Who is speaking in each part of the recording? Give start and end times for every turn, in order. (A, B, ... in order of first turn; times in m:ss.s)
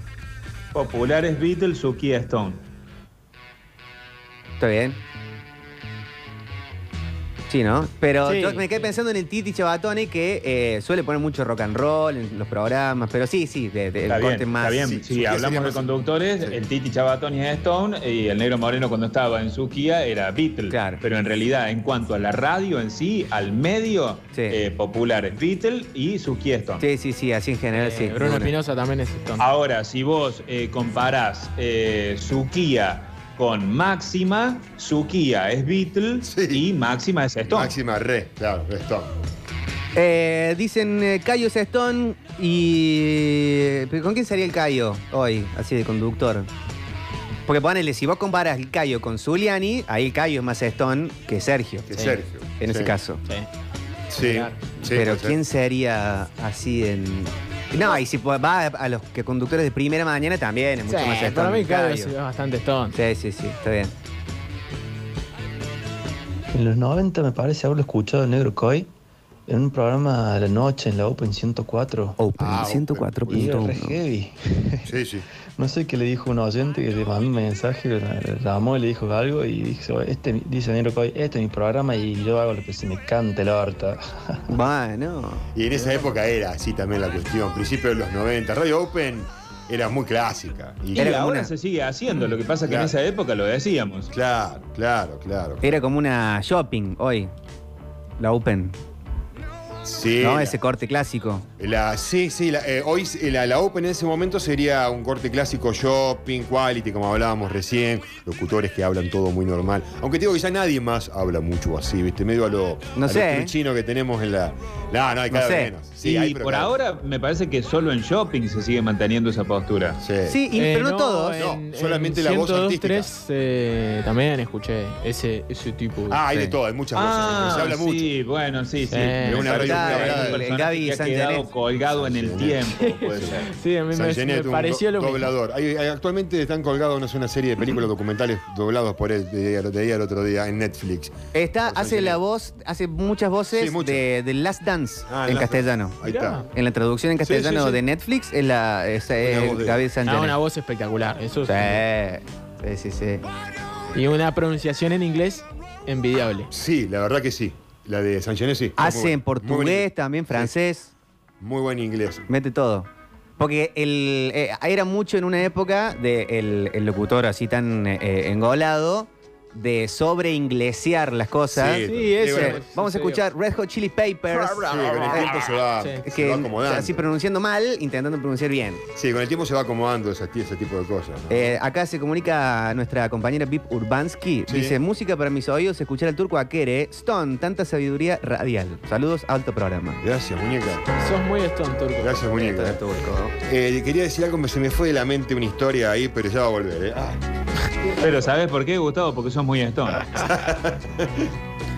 0:00.7-0:02.6 A
0:04.6-0:05.0 B
0:07.5-0:15.0 B
0:08.2-0:08.7 C
0:14.1-0:26.8 A
0:14.6-0:16.6 D
0:20.7-0:21.0 B
0:24.3-0:24.6 B
0:26.8-0:28.5 B
0:27.7-0:29.4 C
0:29.4-0:37.8 A
0:36.2-0:36.7 D
0:37.5-0:39.1 D
0:40.0-0:46.5 B
0:47.5-0:51.8 B
0:51.9-0:53.0 D
0:52.0-0:52.2 C
0:52.6-0:53.2 B
0:54.1-0:55.4 D
0:54.2-0:54.6 C
0:54.9-1:02.2 B
1:00.9-1:03.0 C
1:02.9-1:03.9 B
1:06.5-1:08.9 E
1:09.5-1:12.2 E
1:12.2-1:14.0 B
1:12.4-1:13.4 D
1:13.3-1:14.8 E
1:14.9-1:15.3 D
1:15.6-1:24.3 E
1:24.5-1:25.4 B
1:25.6-1:31.2 D
1:30.9-1:31.5 B
1:30.9-1:34.1 A
1:32.7-1:33.0 D
1:34.1-1:35.6 D
1:35.6-1:37.3 B
1:38.2-1:38.8 B
1:39.8-1:40.6 D
1:40.2-1:41.5 B
1:41.6-1:56.7 D
1:53.0-1:53.5 B
1:55.3-1:55.7 B
1:56.0-2:00.0 A
2:00.0-2:00.4 D
2:00.2-2:01.4 B
2:00.5-2:06.2 C
2:01.4-2:03.1 D
2:06.1-2:08.1 D
2:06.3-2:06.6 B
2:07.0-2:13.5 A
2:08.9-2:09.6 C
2:09.0-2:10.4 D
2:09.5-2:11.5 B
2:11.8-2:22.2 D
2:12.8-2:15.3 C
2:21.3-2:26.0 B
2:23.5-2:24.0 D
2:25.1-2:26.5 D
2:26.0-2:26.5 C
2:26.5-2:30.4 B
2:27.2-2:27.8 D
2:29.2-2:29.8 D
2:30.0-2:31.8 C
2:31.4-2:33.3 B
2:33.9-2:36.5 C
2:36.5-2:40.5 D
2:38.8-2:40.9 B
2:41.4-2:42.3 D
2:42.3-2:42.9 B
2:43.4-2:55.2 B
2:51.5-2:52.6 D
2:51.8-2:53.2 C
2:54.5-2:57.0 D
2:55.8-2:56.0 C
2:56.0-2:58.8 B
2:59.0-3:01.6 D
3:01.3-3:10.0 B
3:04.5-3:04.8 D
3:10.0-3:10.8 D
3:11.0-3:12.3 C
3:12.0-3:17.2 D
3:12.3-3:13.3 B
3:18.0-3:20.1 A
3:20.2-3:21.3 D